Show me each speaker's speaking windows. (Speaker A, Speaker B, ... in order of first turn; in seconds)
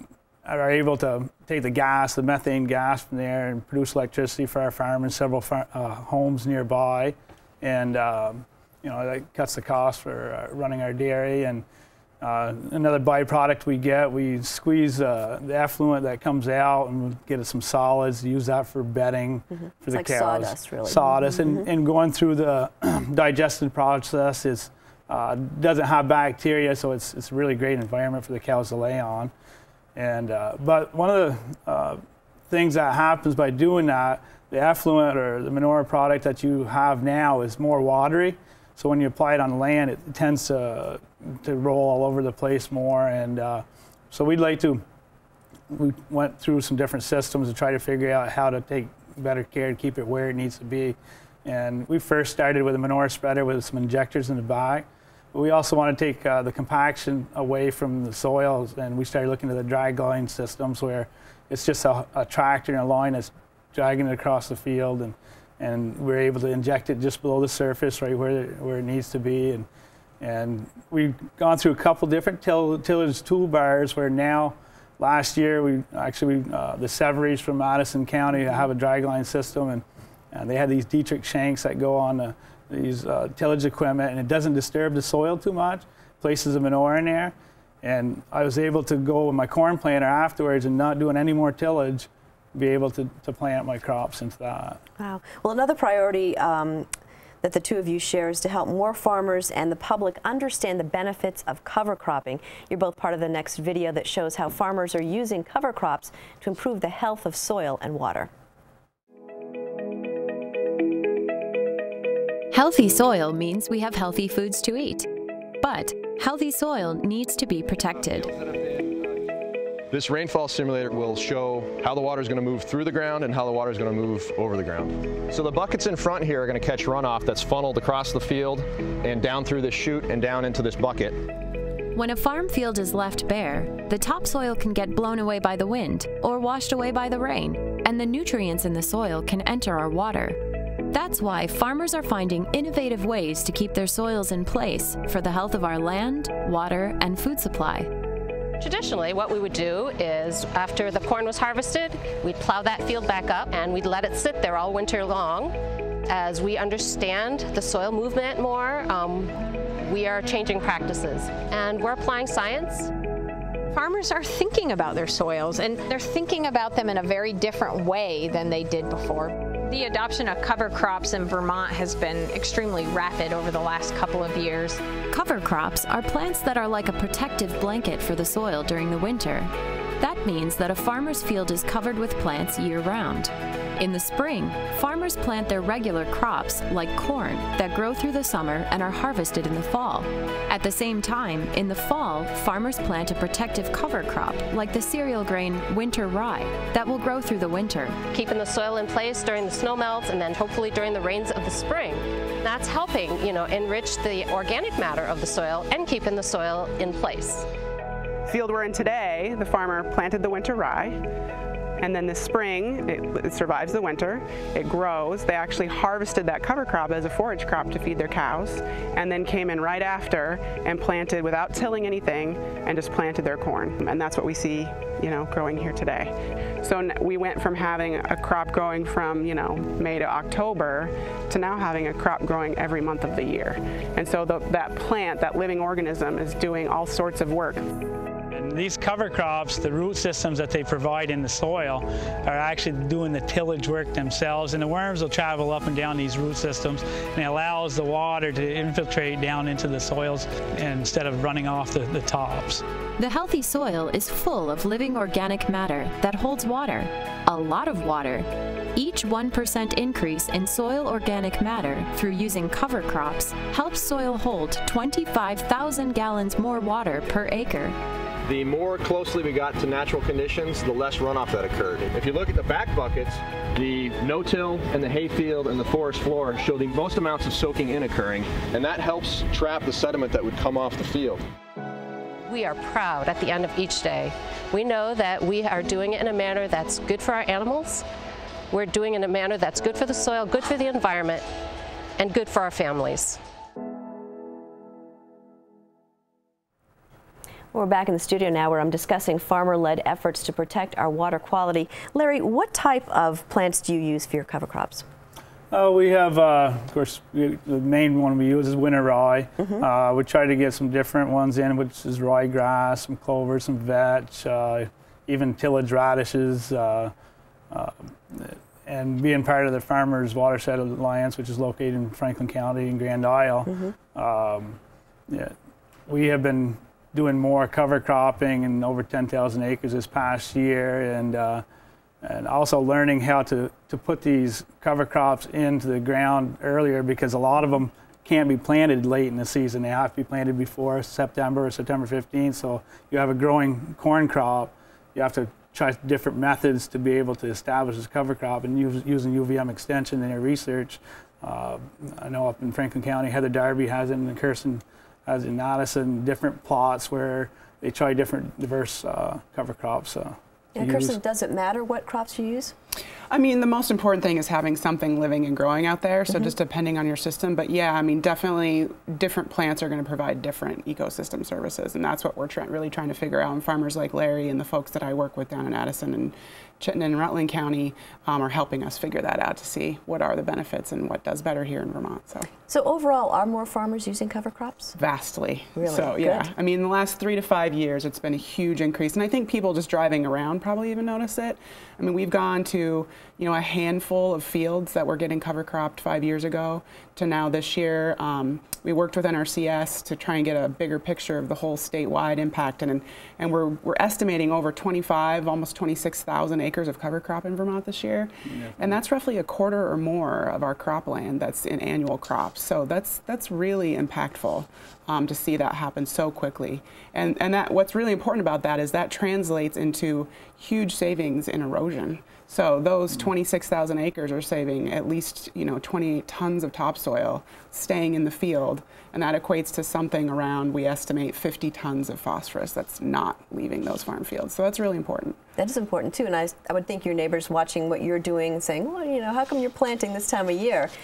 Speaker A: 0.4-11.6, 12.2-29.3, 29.9-32.0, 32.5-44.8, 45.7-69.7, 70.2-94.8, 238.3-252.6, 305.5-316.9, 317.5-325.3, 325.9-331.4, 332.0-361.0, 408.3-408.8
Speaker B: 19.5-21.7, 95.0-96.9, 97.4-108.3, 297.5-304.8, 323.5-323.7, 360.6-362.5, 382.5-384.8, 385.6-386.3, 435.4-440.7
Speaker C: 112.5-115.1, 115.6-118.3, 131.9-147.9, 175.1-198.0, 253.0-267.8
Speaker D: 118.3-118.9, 119.9-131.2, 268.2-281.2
Speaker E: 148.6-155.5, 156.1-162.9, 198.1-207.5, 282.3-287.8, 288.5-291.2, 292.0-293.2
Speaker F: 163.7-174.8
Speaker G: 208.3-211.0, 211.8-237.6, 363.1-382.3, 384.8-435.2